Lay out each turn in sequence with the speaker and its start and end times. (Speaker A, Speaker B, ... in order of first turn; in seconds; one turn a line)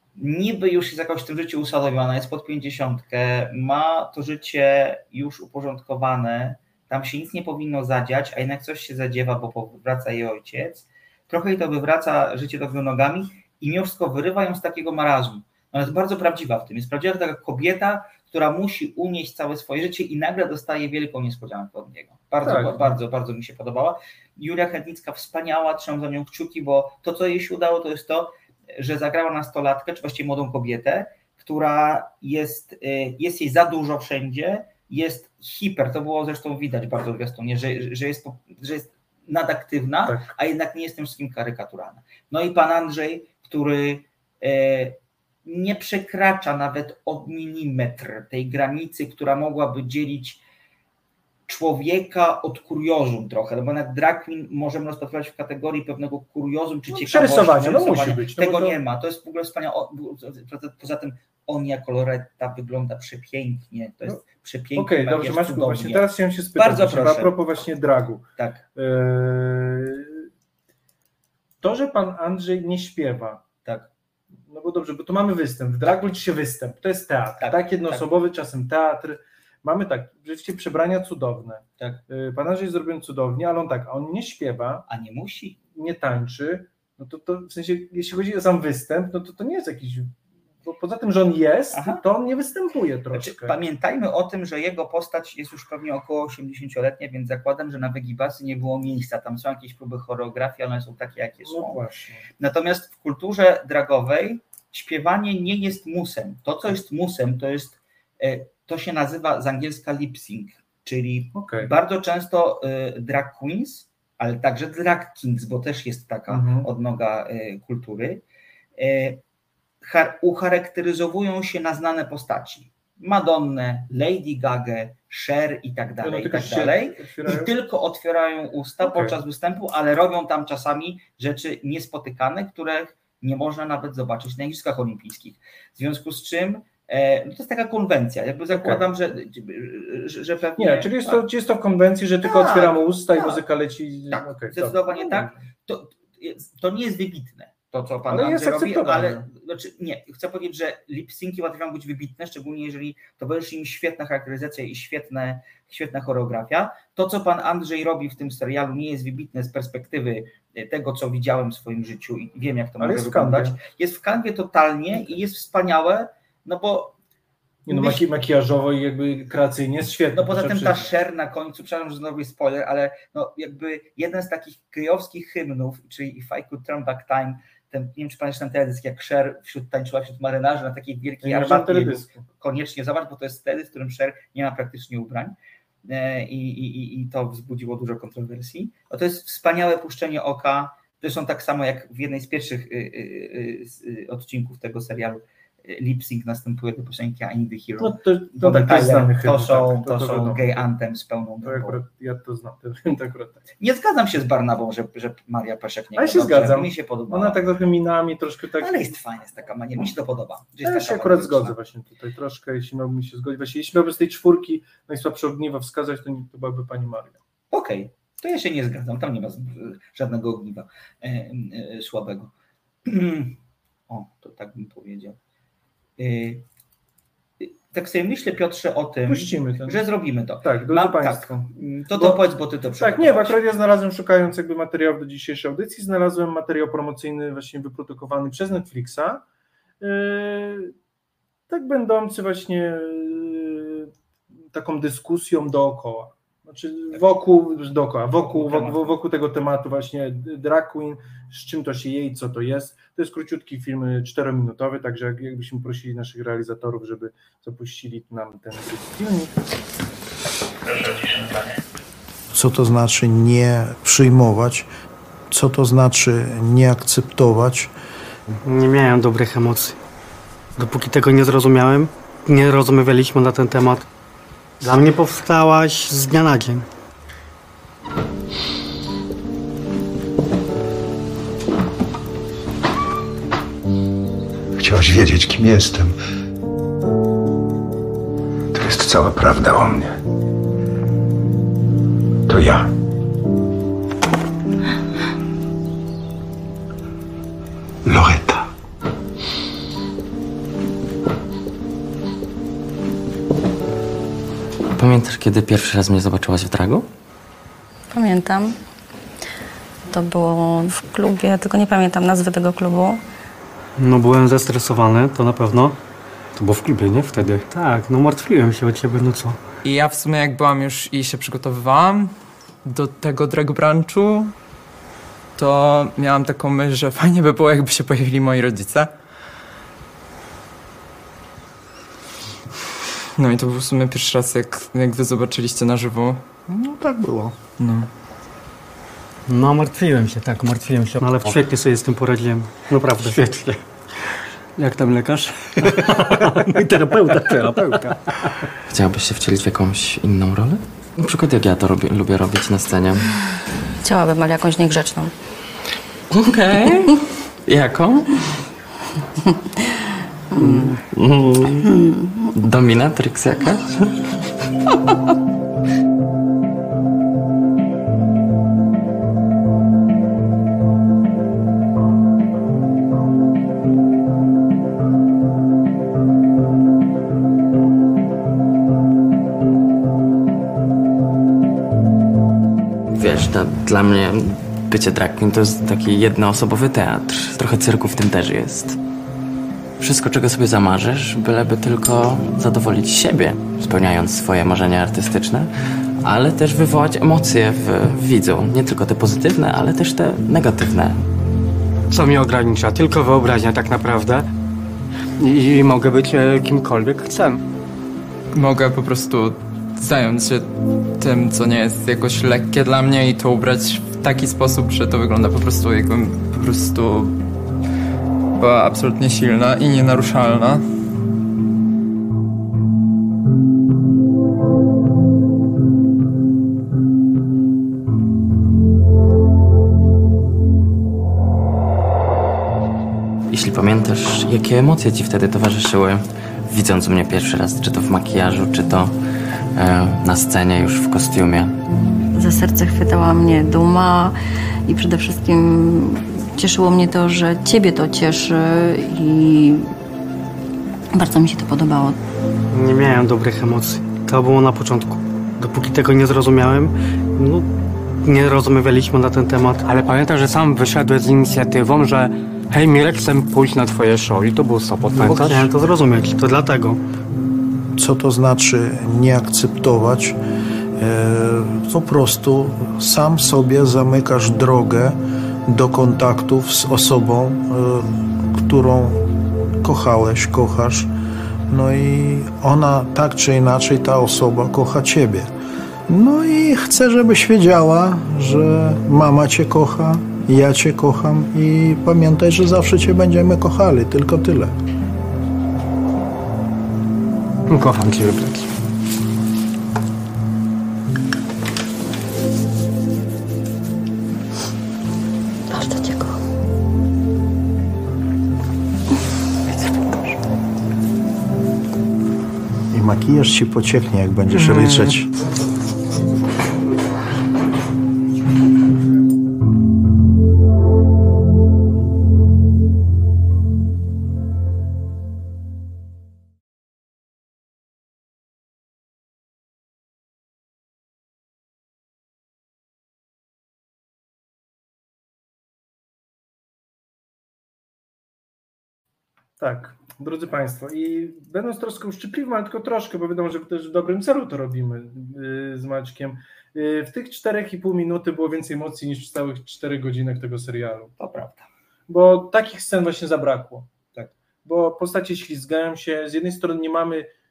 Speaker A: 0.1-50.4
Speaker B: 22.4-22.9
Speaker B: 40.0-40.3
Speaker A: 51.5-67.4
Speaker B: 56.9-58.8
Speaker B: 64.8-70.3
Speaker A: 68.4-68.6
Speaker B: 71.6-73.4
Speaker B: 74.5-84.8
Speaker A: 77.4-78.1
Speaker A: 84.9-85.6
Speaker B: 85.7-93.5
Speaker A: 91.7-92.0
Speaker A: 93.1-101.8
Speaker B: 101.4-102.2
Speaker A: 102.4-118.2
Speaker B: 111.3-111.7
Speaker B: 116.3-116.7
Speaker A: 118.8-119.2
Speaker A: 119.8-141.2
Speaker B: 126.0-127.5
Speaker B: 128.8-129.2
Speaker B: 138.5-138.8
Speaker B: 140.6-145.4
Speaker A: 142.2-143.4
Speaker A: 144.1-166.9
Speaker B: 148.1-149.3
Speaker B: 162.8-163.6
Speaker B: 167.7-170.9
Speaker A: 167.7-168.0
Speaker A: 170.1-201.8
Speaker B: 181.2-182.2
Speaker B: 197.8-200.5
Speaker B: 201.4-203.4
Speaker A: 203.6-207.4
Speaker B: 205.9-208.9
Speaker A: 208.6-211.6
Speaker B: 210.6-217.2
Speaker A: 217.5-222.3
Speaker A: 222.8-223.4
Speaker A: 223.9-225.2
Speaker A: 226.0-226.4
Speaker A: 227.4-233.4
Speaker B: 229.0-229.8
Speaker B: 230.4-232.2
Speaker B: 232.8-239.2
Speaker B: 239.8-240.7
Speaker B: 241.5-243.9
Speaker B: 244.5-259.4
Speaker A: 248.2-249.0
Speaker C: 262.4-264.5
Speaker D: 268.4-269.8
Speaker D: 270.6-273.8
Speaker D: 274.6-276.6
Speaker E: 284.6-285.9
Speaker E: 288.5-290.0
Speaker E: 292.3-292.7
Speaker E: 297.8-298.4
Speaker F: 304.7-306.9
Speaker G: 307.9-308.6
Speaker G: 309.9-313.0
Speaker D: 313.8-315.8
Speaker D: 316.4-319.4
Speaker H: 319.6-324.3
Speaker H: 325.4-328.9
Speaker H: 333.1-336.2
Speaker H: 337.6-337.9
Speaker D: 339.3-343.6
Speaker D: 344.6-347.9
Speaker F: 348.7-353.1
Speaker G: 353.8-355.1
Speaker F: 356.2-356.9
Speaker F: 357.4-358.1
Speaker G: 360.4-360.6
Speaker F: 360.4-361.7
Speaker F: 362.3-363.9
Speaker F: 382.9-388.8
Speaker F: 389.8-395.5
Speaker F: 396.0-401.0
Speaker D: 401.9-404.2
Speaker D: 405.2-407.4
Speaker H: 408.3-417.2
Speaker H: 418.4-420.6
Speaker F: 433.3-438.9
Speaker F: 439.5-441.6
Speaker G: 442.1-444.1
Speaker G: 444.7-449.7
Speaker G: 450.9-452.0
Speaker D: 452.5-457.5
Speaker D: 458.0-466.8
Speaker C: 467.8-470.1
Speaker C: 470.8-474.9
Speaker C: 475.5-477.8
Speaker C: 478.4-479.0
Speaker C: 479.6-480.9
Speaker C: 481.5-485.3
Speaker C: 485.9-494.5
Speaker D: 497.5-498.4
Speaker G: 505.5-506.1
Speaker C: 512.7-514.6
Speaker B: 539.4-550.9
Speaker A: 551.0-551.5
Speaker B: 551.9-553.7
Speaker B: 554.4-557.1